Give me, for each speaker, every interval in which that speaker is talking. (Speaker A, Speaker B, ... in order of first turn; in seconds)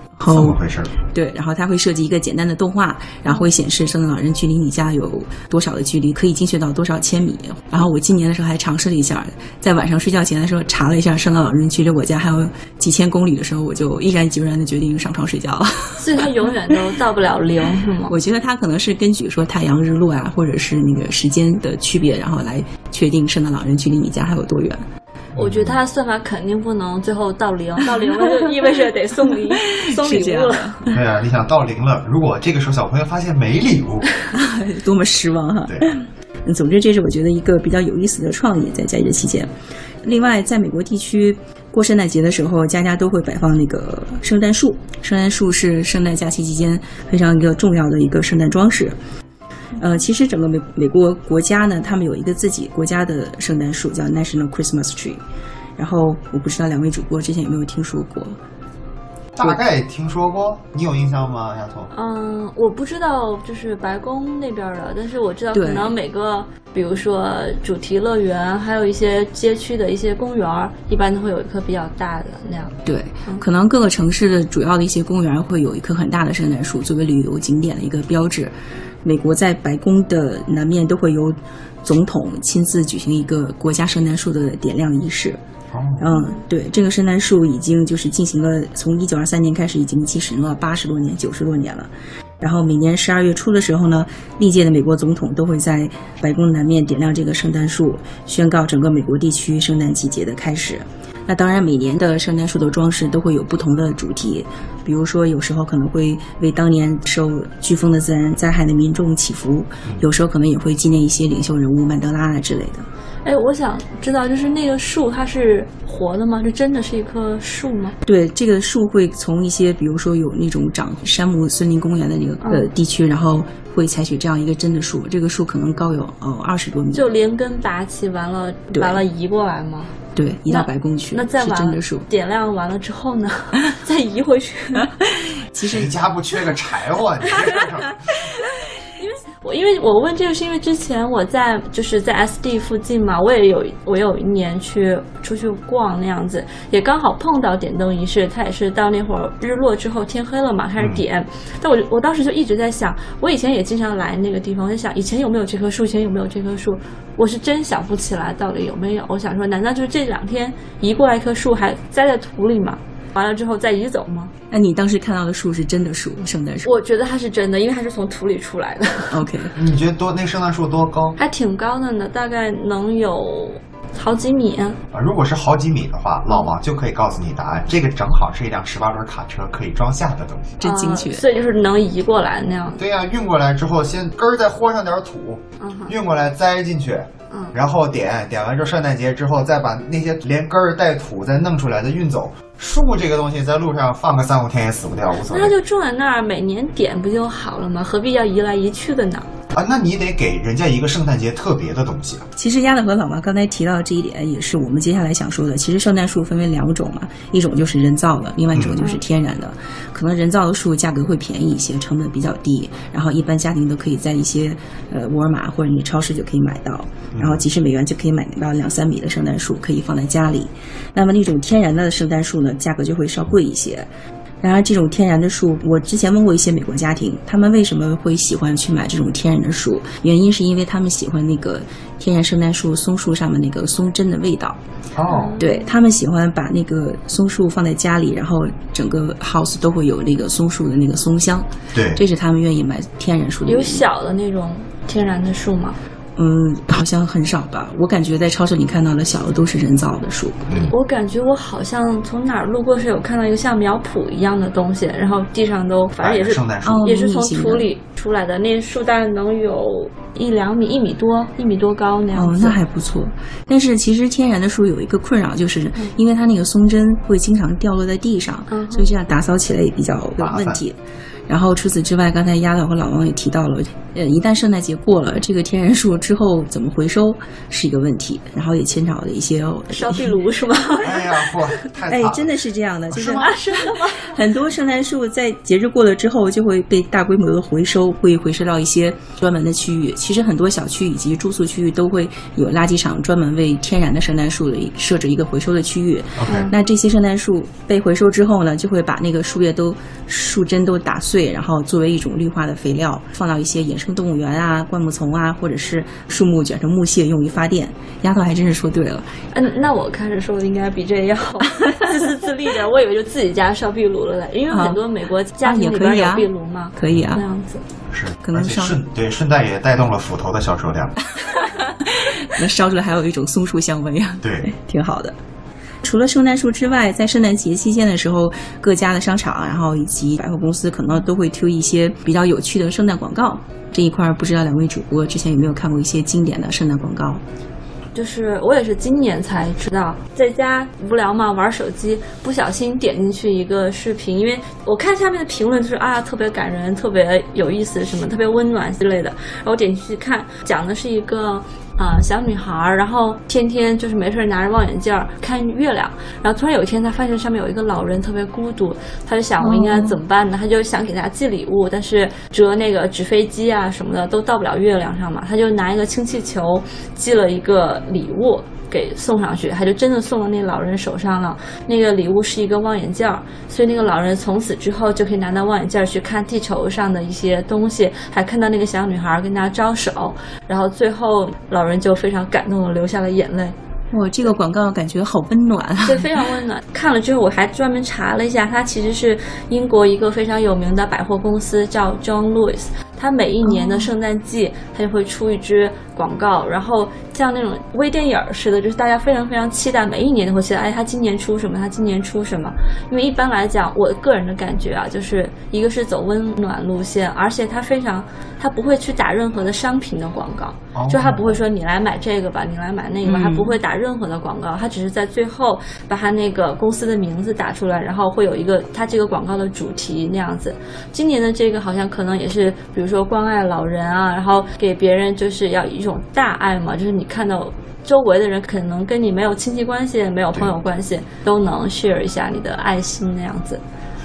Speaker A: 0.2-0.6, 1.1-16.7, 18.1-24.9, 28.0-28.5, 29.5-31.0, 34.3-39.5, 40.0-49.0, 49.8-55.2, 55.8-58.4, 65.5-65.9, 72.8-85.4, 86.0-91.9, 92.4-112.9, 118.1-127.1, 128.7-129.0, 130.2-132.1, 135.0-135.9, 164.5-166.7, 169.1-169.5, 180.6-181.2, 202.4-223.9, 224.4-234.6, 235.4-243.8, 246.2-250.4, 256.6-257.7, 262.1-270.8, 271.3-280.1, 281.9-309.1, 311.5-312.0, 314.5-314.8, 315.4-317.2, 318.2-318.8, 321.3-325.1, 325.8-337.2, 359.4-360.0, 383.9-386.3, 393.5-393.9, 413.1-413.6
Speaker B: 0.3-0.9, 25.4-25.8, 30.9-34.2, 35.7-35.9, 59.4-61.9, 85.7-86.1, 135.6-138.3, 150.8-151.1, 169.5-171.2, 174.9-180.6, 182.8-195.6, 199.5-202.2, 208.6-208.8, 217.1-217.4, 234.9-235.4, 241.7-242.0, 250.5-250.7, 256.0-256.9, 270.2-270.6, 280.8-282.4, 282.9-283.4, 296.2-296.5, 317.9-321.0, 324.2-324.5, 410.8-411.4
Speaker C: 16.0-18.1, 25.4-30.8, 61.9-73.5, 113.2-118.0, 122.4-122.7, 126.9-129.9, 130.5-134.9, 139.0-164.3, 166.6-169.2, 171.2-174.8, 180.6-182.8, 185.6-185.9, 195.3-199.3, 235.1-235.7, 243.5-245.8, 250.7-262.6, 268.5-268.9, 279.7-281.5, 283.1-284.2, 296.3-296.5, 309.3-317.6, 337.9-383.6, 385.9-433.6